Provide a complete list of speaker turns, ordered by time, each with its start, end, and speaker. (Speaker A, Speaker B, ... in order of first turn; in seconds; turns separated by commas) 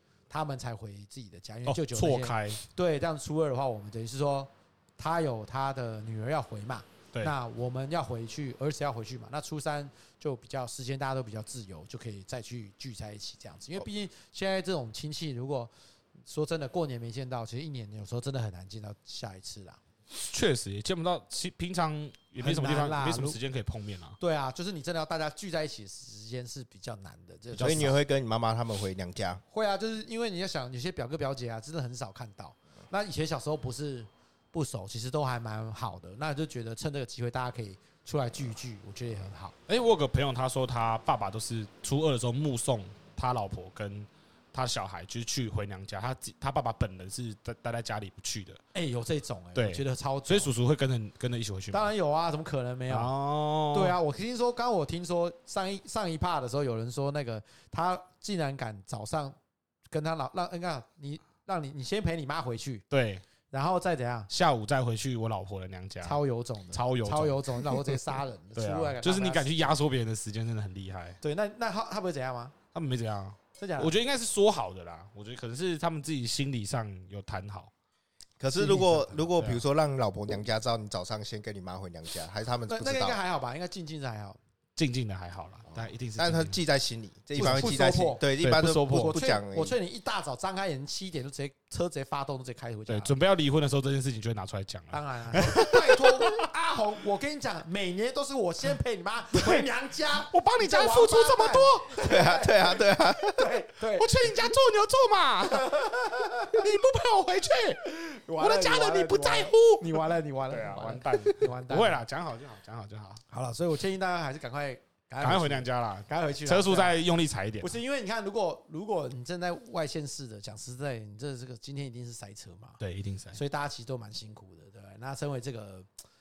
Speaker A: 0.3-15.7, Speaker B: 1.7-2.6, Speaker A: 16.2-19.8, Speaker B: 20.1-24.2, Speaker A: 22.4-23.4, Speaker A: 24.2-28.0, Speaker B: 27.5-27.9, Speaker C: 27.6-29.4, Speaker A: 29.5-39.5, Speaker B: 39.7-48.6, Speaker A: 48.7-50.5, Speaker B: 49.5-51.9, Speaker A: 51.7-53.1, Speaker B: 52.9-54.0, Speaker A: 53.7-59.4, Speaker A: 59.9-62.8, Speaker B: 62.9-63.2, Speaker A: 63.5-64.3, Speaker B: 64.3-66.2, Speaker A: 66.0-69.8, Speaker B: 66.7-68.0, Speaker B: 68.5-71.2, Speaker A: 71.2-72.5, Speaker B: 72.7-77.7, Speaker A: 73.6-73.9, Speaker C: 78.4-83.2, Speaker A: 78.5-79.2, Speaker B: 79.3-79.6, Speaker A: 82.7-84.4, Speaker B: 84.8-86.6, Speaker C: 85.7-89.8, Speaker A: 87.3-88.2, Speaker B: 87.4-87.8, Speaker B: 88.4-89.2, Speaker A: 88.8-93.1, Speaker B: 92.9-96.5, Speaker A: 94.9-104.1, Speaker B: 99.3-99.7, Speaker B: 100.2-102.0, Speaker C: 102.0-103.5, Speaker B: 104.0-113.2, Speaker A: 105.7-106.5, Speaker A: 108.3-112.0, Speaker A: 113.3-117.0, Speaker B: 115.2-117.8, Speaker A: 117.6-122.8, Speaker B: 122.8-123.4, Speaker A: 123.3-125.9